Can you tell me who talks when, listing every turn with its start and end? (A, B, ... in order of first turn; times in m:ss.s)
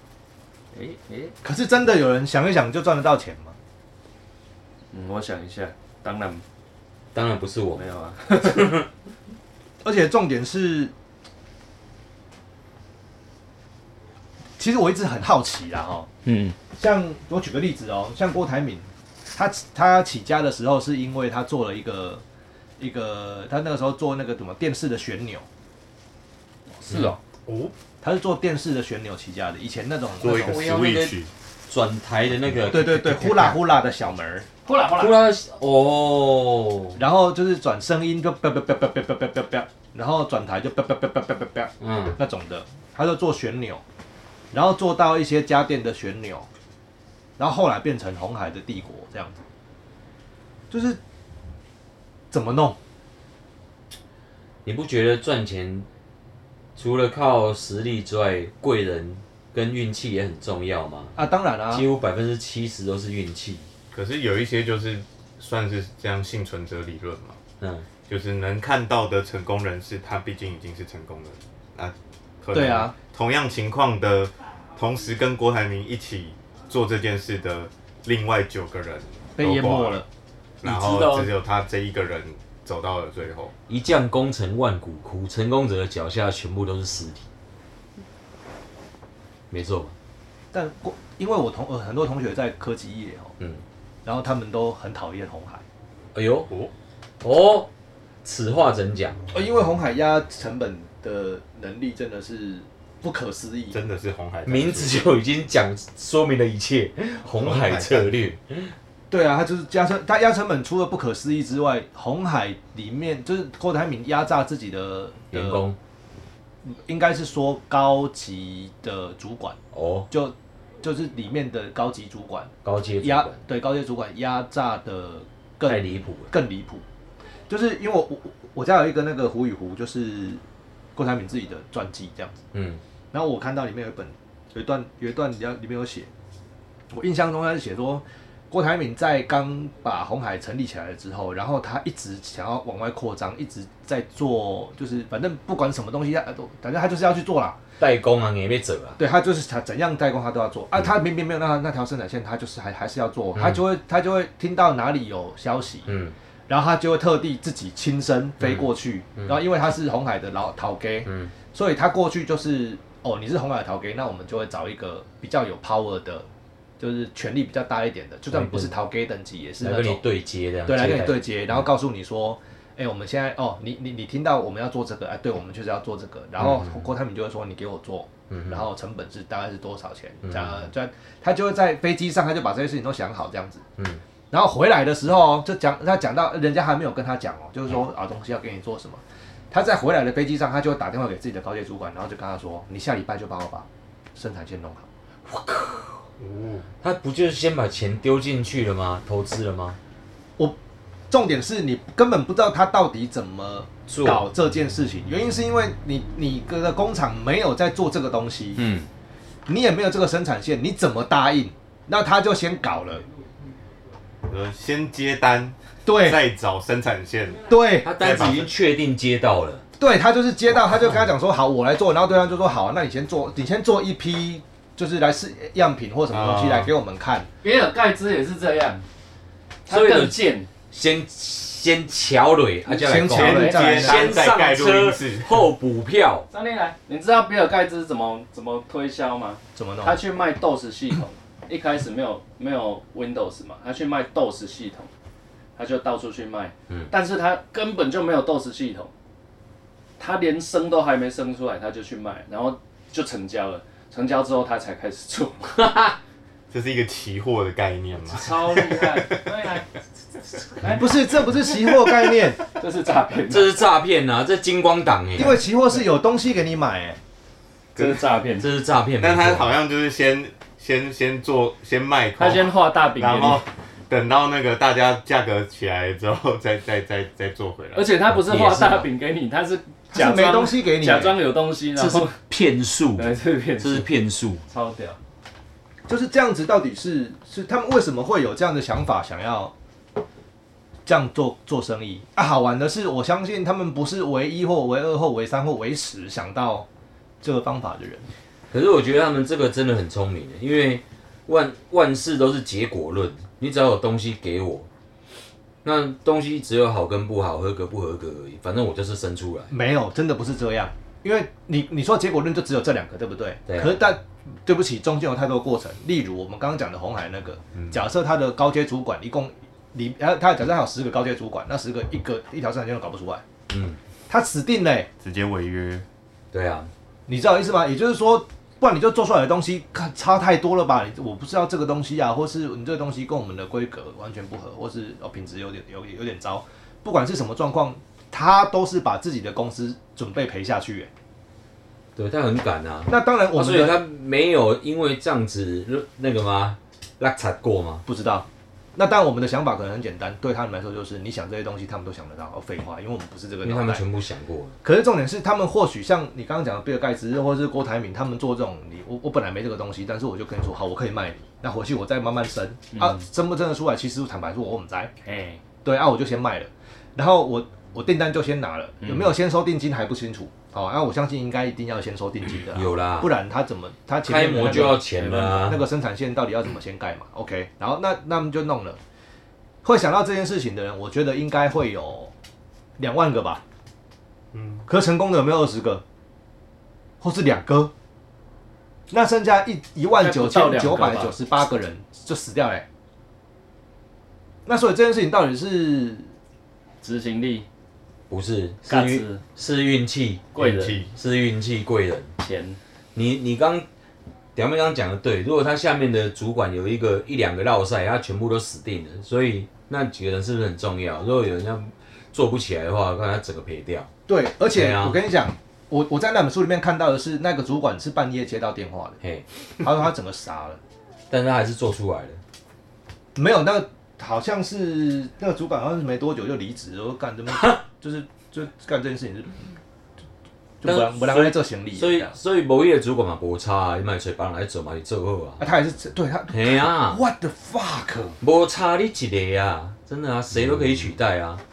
0:00.7-0:01.3 A
0:01.4-0:03.6 B
0:04.9-0:06.4 A
0:07.1-0:08.8 C
0:07.7-0:08.8 A
0:09.8-0:10.9 B
0:14.6-0:16.1 B
0:16.2-0:16.6 C
0:16.7-0:22.2 B
0:22.8-0:25.4 B
0:26.8-0:27.2 A
0:27.4-0:27.7 D
0:28.0-0:30.6 B
0:30.2-0:31.3 D
0:30.2-0:33.6 C
0:32.6-0:34.5 B
0:34.6-0:35.2 A
0:34.9-0:37.0 C
0:37.0-0:43.8 B
0:41.8-0:42.2 C
0:44.5-0:46.5 B
0:47.4-0:49.4 B
0:50.7-0:51.0 B
0:52.3-0:52.8 B
0:54.6-0:55.9 C
0:56.8-1:01.1 C
1:01.2-1:01.8 B
1:01.7-1:03.7 C
1:03.9-1:07.4 D
1:07.6-1:07.8 C
1:08.1-1:20.0 D
1:12.5-1:12.9 B
1:19.4-1:20.0 B
1:20.6-1:23.5 D
1:20.6-1:21.3 C
1:23.7-1:27.2 C
1:29.5-1:29.9 C
1:30.5-1:33.3 B
1:34.0-1:35.6 B
1:36.1-1:36.5 C
1:37.2-1:37.7 C
1:38.2-1:39.2 C
1:39.3-1:43.8 B
1:43.7-1:45.0 D
1:44.4-1:48.7 C
1:47.3-1:48.2 D
1:49.1-1:55.6 B
1:55.3-1:55.8 C
1:56.6-1:59.6 B
1:59.7-2:00.1 C
2:00.1-2:06.8 B
2:02.6-2:03.4 C
2:05.6-2:06.3 C
2:07.5-2:10.4 B
2:10.9-2:12.4 B
2:12.5-2:12.8 C
2:13.1-2:16.1 B
2:16.9-2:27.6 B
2:27.8-2:29.0 C
2:29.0-2:35.9 B
2:33.3-2:33.6 C
2:35.8-2:36.1 C
2:36.5-2:46.2 B
2:38.4-2:38.7 C
2:41.0-2:41.3 C
2:46.8-2:50.0 B
2:48.3-2:48.7 C
2:49.6-2:51.7 C
2:50.6-3:03.6 B
2:56.4-2:56.8 C
2:58.3-2:58.7 C
3:00.2-3:00.7 C
3:04.3-3:14.9 B
3:15.3-3:16.0 C
3:16.2-3:16.6 D
3:16.8-3:19.8 C
3:21.1-3:28.6 B
3:23.9-3:24.3 C
3:28.6-3:28.9 C
3:29.5-3:33.0 B
3:34.3-3:38.5 D
3:35.8-3:36.2 B
3:37.5-3:37.9 B
3:37.8-3:39.6 C
3:39.8-3:47.3 B
3:46.1-3:46.7 D
3:47.4-3:48.8 A
3:49.6-3:50.5 A
3:49.7-3:50.2 C
3:50.7-3:56.2 C
3:52.7-3:54.2 B
3:53.1-3:55.5 D
3:56.3-4:04.9 A
3:59.6-4:00.0 B
4:05.6-4:08.9 A
4:10.0-4:15.7 A
4:15.5-4:16.0 C
4:16.5-4:19.2 D
4:18.1-4:19.6 A
4:20.6-4:20.9 A
4:20.6-4:22.4 B
4:22.5-4:23.6 A
4:23.3-4:25.4 C
4:25.2-4:27.0 B
4:27.8-4:28.0 D
4:27.8-4:28.5 A
4:28.4-4:29.6 C
4:29.0-4:37.9 D
4:32.2-4:33.4 A
4:37.7-4:42.2 A
4:38.1-4:38.9 C
4:39.9-4:41.2 B
4:41.7-4:44.4 C
4:43.0-4:43.9 A
4:44.4-4:45.0 A
4:45.9-4:49.5 B
4:50.8-4:56.6 B
4:57.2-4:58.1 B
4:58.5-5:04.7 C
5:05.6-5:09.5 C
5:09.5-5:23.2 B
5:13.5-5:13.8 C
5:23.5-5:23.8 C
5:24.1-5:24.9 B
5:25.0-5:25.8 D
5:26.3-5:26.7 C
5:27.1-5:40.9 B
5:42.0-5:47.8 C
5:42.8-5:43.8 B
5:47.8-5:53.8 B
5:53.4-5:54.6 C
5:54.6-6:04.9 B
6:02.7-6:03.0 A
6:05.0-6:05.4 A
6:05.6-6:18.8 B
6:08.8-6:09.1 A
6:12.5-6:13.1 C
6:14.0-6:15.7 C
6:19.6-6:22.1 B
6:22.8-6:23.4 B
6:24.3-6:24.6 D
6:24.7-6:25.8 B
6:27.0-6:27.7 B
6:28.9-6:32.6 B
6:29.9-6:31.2 A
6:34.4-6:36.1 B
6:36.8-6:37.4 A
6:38.1-6:42.1 C
6:38.6-6:39.2 A
6:40.3-6:40.8 A
6:40.4-6:40.9 D
6:42.2-6:42.6 A
6:42.9-6:43.6 C
6:44.4-6:53.9 C
6:54.1-6:59.0 B
6:54.5-6:55.0 C
6:59.6-7:00.6 B
7:01.1-7:02.2 C
7:03.1-7:09.4 B
7:10.6-7:12.1 B
7:10.6-7:15.5 C
7:15.4-7:18.2 B
7:16.3-7:17.0 C
7:18.2-7:21.4 C